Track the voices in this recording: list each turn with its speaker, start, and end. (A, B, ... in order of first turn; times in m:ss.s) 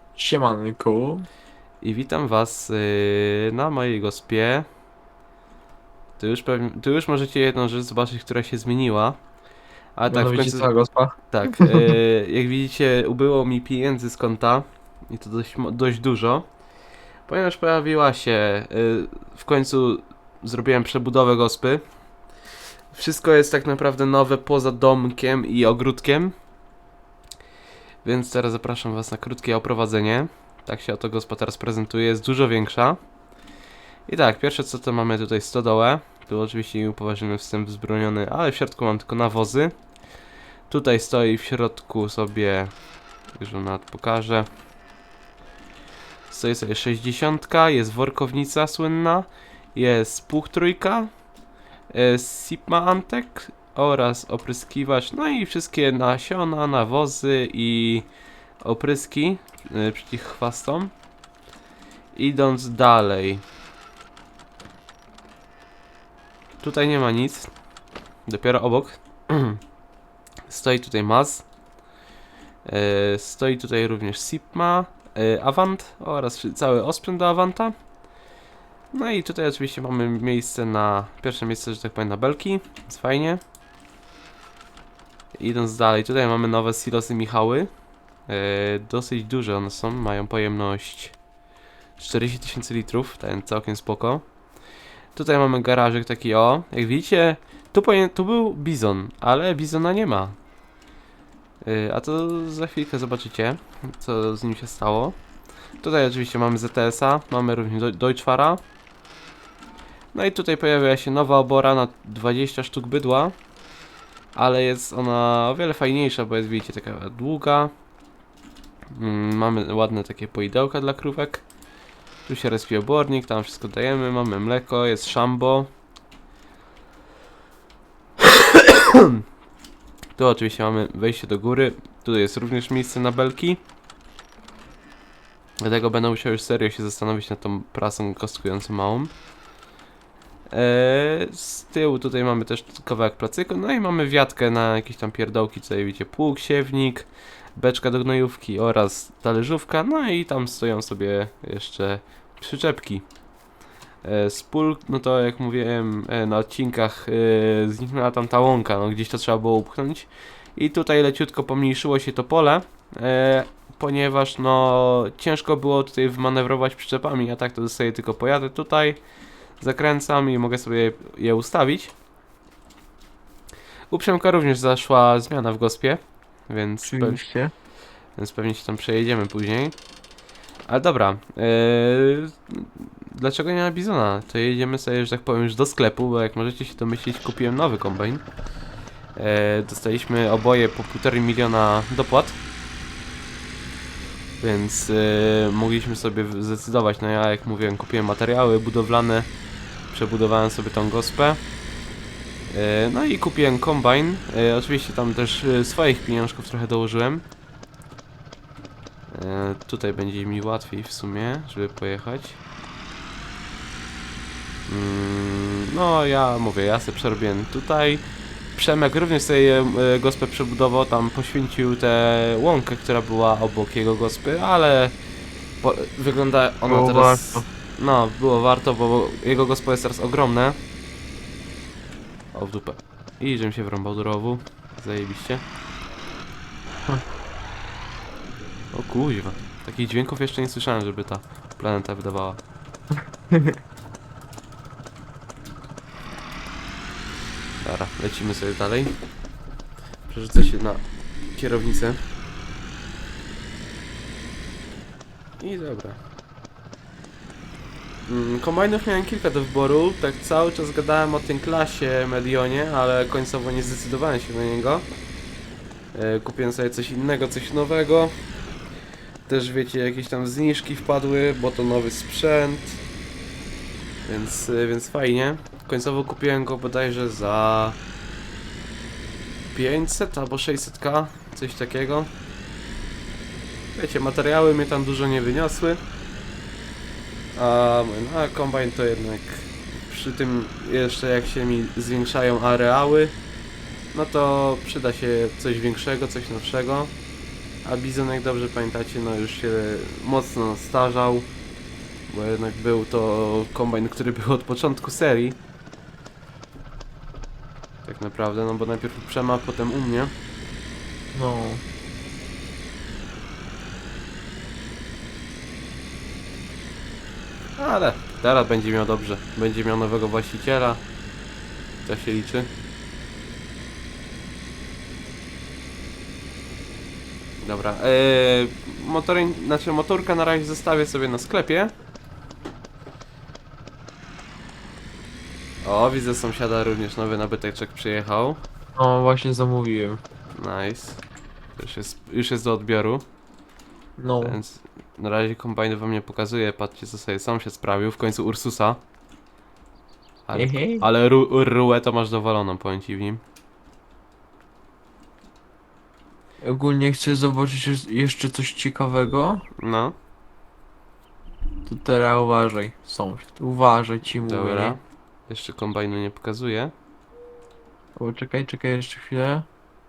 0:00.2-0:01.3 A
0:01.8-0:04.7 B
0:06.2-0:09.2 B
0:10.0-0:10.7 B
0:10.1-0:11.9 A
0:11.3-0:16.5 B
0:17.3-0:21.9 B
0:22.9-0:26.3 B
0:28.0-0:33.0 B
0:34.1-0:39.7 B
0:40.7-0:42.7 B
0:43.3-0:44.5 B
0:46.3-0:51.1 B
0:51.9-0:58.1 B
0:58.6-1:00.9 B
1:02.1-1:03.4 B
1:06.6-1:07.5 B
1:08.2-1:09.6 B
1:10.5-1:11.4 B
1:12.6-1:17.8 B
1:18.9-1:23.4 B
1:25.4-1:27.7 B
1:28.3-1:31.2 B
1:32.0-1:34.2 B
1:35.1-1:40.4 B
1:41.6-1:45.2 B
1:45.8-1:48.6 B
1:50.1-1:53.4 B
1:54.4-1:57.7 B
1:58.9-2:01.4 B
2:02.3-2:05.7 B
2:08.2-2:09.2 B
2:10.2-2:13.6 B
2:15.6-2:19.1 B
2:20.5-2:33.1 B
2:34.0-2:49.0 B
2:49.6-2:51.9 B
2:53.9-2:57.2 B
2:56.8-2:57.5 A
2:58.2-2:59.8 B
3:00.7-3:08.2 B
3:09.1-3:12.4 B
3:14.4-3:19.3 B
3:19.9-3:21.4 B
3:22.5-3:27.2 B
3:29.1-3:32.4 B
3:34.7-3:44.9 B
3:45.6-3:50.6 B
3:46.6-3:47.4 A
3:52.3-3:55.4 B
3:58.7-4:02.4 B
4:03.3-4:03.6 A
4:07.6-4:09.0 B
4:10.1-4:12.0 B
4:15.4-4:16.0 B
4:18.1-4:24.9 B
4:25.9-4:28.2 B
4:29.3-4:32.8 B
4:34.1-4:37.8 B
4:39.5-4:42.1 B
4:43.8-4:45.8 B
4:47.4-4:53.2 B
4:53.9-4:56.9 B
4:57.6-5:01.3 B
5:02.1-5:05.4 B
5:07.8-5:10.1 B
5:11.1-5:11.6 A
5:17.6-5:20.8 B
5:21.8-5:22.5 B
5:27.4-5:31.7 B
5:35.6-5:38.4 B
5:38.8-5:40.0 A
5:40.4-5:41.0 B
5:41.6-5:43.0 B
5:44.0-5:44.4 A
5:44.2-5:48.8 B
5:50.3-5:53.2 B
5:50.3-5:50.8 A
5:56.4-5:59.5 A
5:59.6-5:59.9 B
6:01.7-6:04.8 A
6:04.1-6:06.7 B
6:08.0-6:09.5 A